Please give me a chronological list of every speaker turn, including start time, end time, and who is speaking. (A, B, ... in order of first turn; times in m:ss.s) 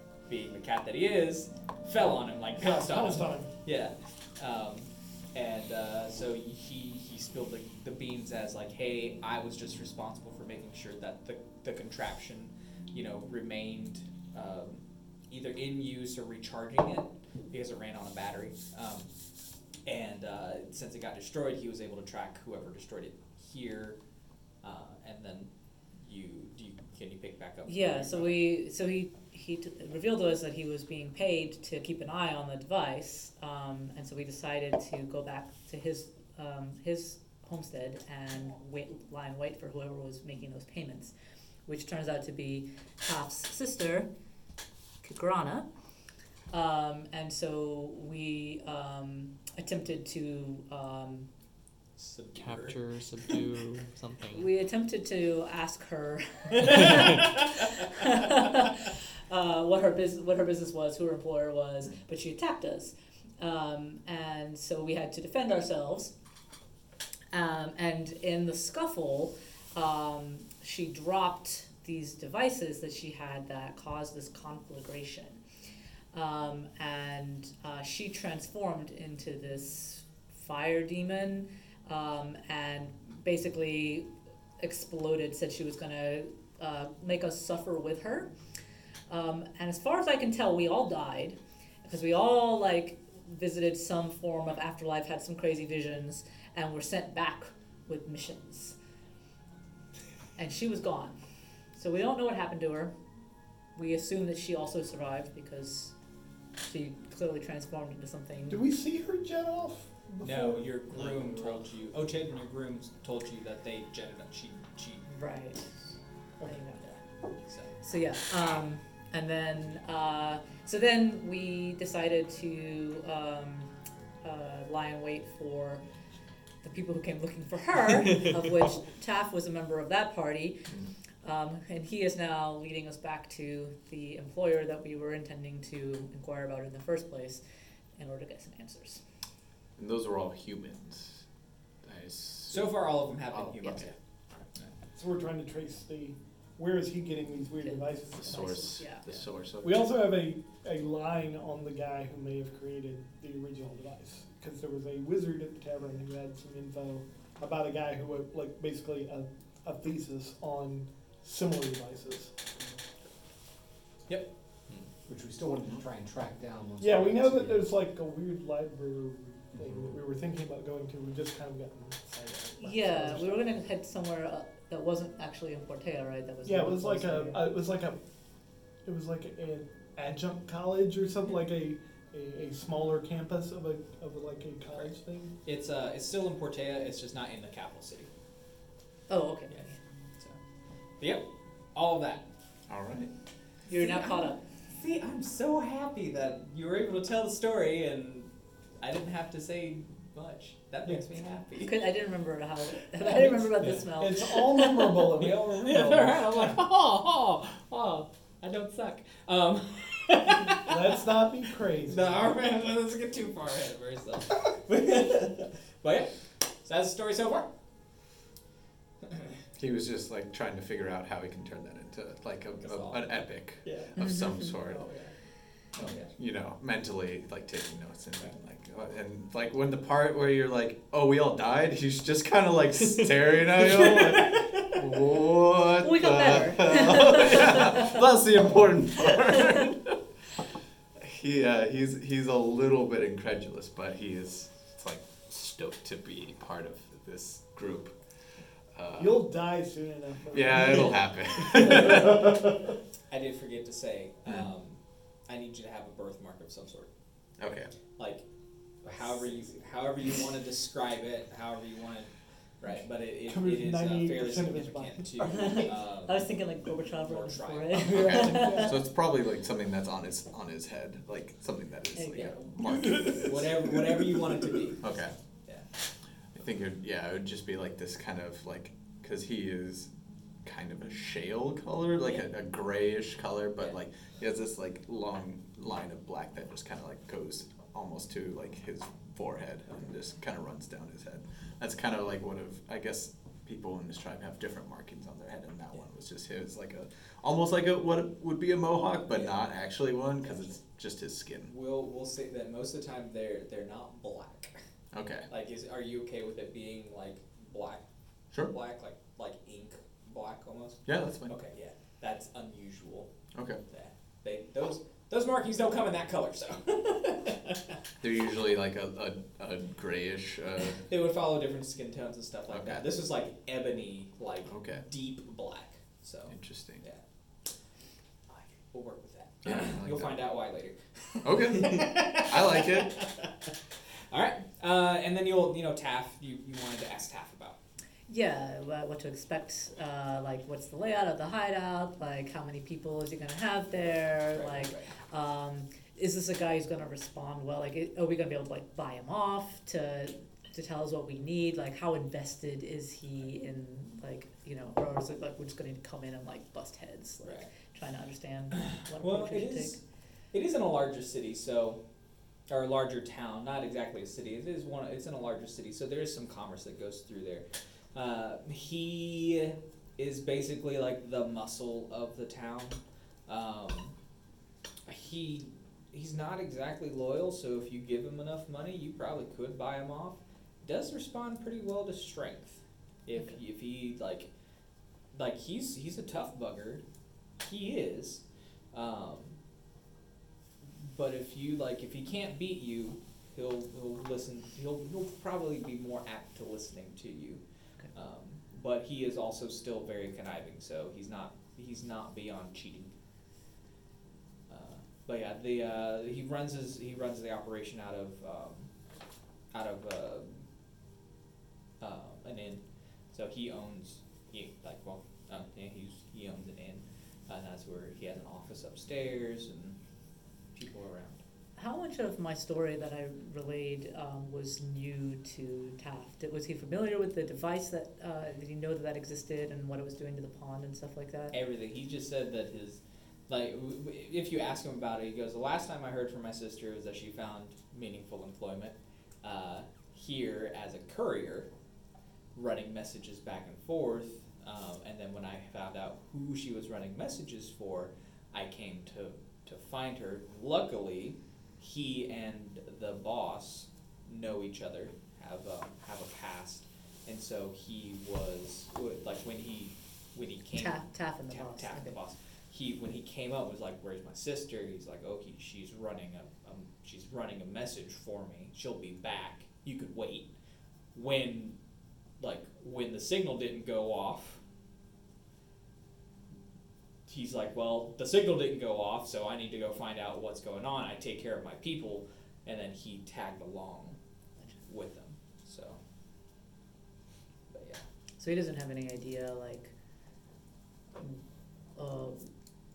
0:00.3-0:19.1 A
0:02.6-0:03.5 B
0:19.9-0:24.0 A
0:24.6-0:25.5 A
0:26.0-0:28.4 A
0:27.7-0:41.1 C
0:41.7-0:44.1 C
0:45.0-0:45.7 C
0:46.5-0:51.3 C
0:52.0-0:53.4 A
0:52.4-0:54.5 D
0:54.3-1:06.1 C
1:07.3-1:15.4 C
1:16.1-1:24.1 C
1:24.6-1:28.3 C
1:29.1-1:38.8 C
1:40.4-1:41.2 C
1:41.8-1:42.9 C
1:43.8-1:45.9 C
1:46.6-1:48.6 C
1:48.5-1:50.7 B
1:50.2-1:55.1 A
1:55.1-1:55.7 C
1:56.4-1:56.9 C
1:56.8-1:57.7 A
1:57.8-2:03.7 C
2:04.2-2:05.8 C
2:06.6-2:10.6 C
2:11.2-2:17.4 C
2:18.0-2:19.0 C
2:19.8-2:21.2 E
2:21.8-2:22.8 E
2:22.5-2:24.0 A
2:23.3-2:23.9 E
2:25.0-2:28.7 B
2:27.6-2:29.2 C
2:28.1-2:29.9 E
2:29.6-2:42.3 B
2:45.1-2:47.7 F
2:46.8-2:53.5 B
2:49.6-2:49.9 F
2:52.6-2:57.6 C
2:56.4-2:58.0 B
2:58.8-3:05.3 B
3:05.4-3:08.1 A
3:09.1-3:09.8 C
3:11.0-3:12.3 A
3:12.7-3:13.1 E
3:13.7-3:14.4 C
3:13.8-3:21.9 A
3:21.6-3:24.4 C
3:23.0-3:23.7 A
3:23.6-3:26.6 B
3:24.4-3:31.0 A
3:30.6-3:32.2 B
3:31.8-3:37.5 A
3:39.6-3:44.9 E
3:42.6-3:44.0 A
3:44.0-3:44.5 C
3:44.7-3:45.1 A
3:45.8-3:46.1 A
3:45.8-4:00.0 E
3:53.8-3:54.8 A
3:55.8-3:57.9 C
3:59.3-3:59.6 C
4:01.0-4:07.9 E
4:08.8-4:09.3 E
4:09.0-4:12.1 B
4:10.3-4:12.2 E
4:11.4-4:12.4 A
4:13.1-4:16.9 A
4:17.4-4:17.7 E
4:18.0-4:18.2 A
4:18.8-4:26.3 A
4:23.3-4:25.1 B
4:25.2-4:28.8 C
4:27.0-4:28.5 A
4:27.8-4:33.7 E
4:27.9-4:28.7 B
4:32.0-4:32.3 C
4:32.1-4:34.9 A
4:33.1-4:33.8 B
4:34.8-4:35.1 E
4:36.4-4:39.9 E
4:40.4-5:01.5 E
5:00.2-5:00.6 A
5:01.5-5:04.6 A
5:04.9-5:05.3 E
5:05.3-5:07.8 A
5:08.4-5:13.1 A
5:10.9-5:11.3 E
5:13.4-5:13.6 E
5:13.7-5:17.6 A
5:18.0-5:20.8 E
5:20.8-5:27.0 A
5:22.5-5:22.8 E
5:24.5-5:24.8 E
5:26.3-5:26.8 E
5:28.3-5:33.5 A
5:29.4-5:30.2 E
5:31.2-5:33.0 E
5:34.1-5:37.6 A
5:38.1-5:59.8 C
5:44.3-5:44.9 A
5:57.2-5:57.5 A
5:58.6-5:59.8 A
6:00.3-6:01.8 A
6:02.5-6:14.0 A
6:14.9-6:24.3 A
6:25.1-6:26.8 A
6:27.4-6:29.4 A
6:30.6-6:42.9 A
6:44.5-6:48.7 A
6:49.5-6:50.4 A
6:51.8-6:59.8 A
7:00.5-7:01.2 A
7:01.6-7:11.4 C
7:11.3-7:21.5 A
7:22.4-7:50.3 A
7:40.5-7:42.0 C
7:51.0-7:51.6 A
7:52.2-7:54.4 A
7:57.1-8:04.0 A
8:04.7-8:05.8 A
8:07.5-8:07.8 A
8:08.2-8:09.7 C
8:11.8-8:12.3 C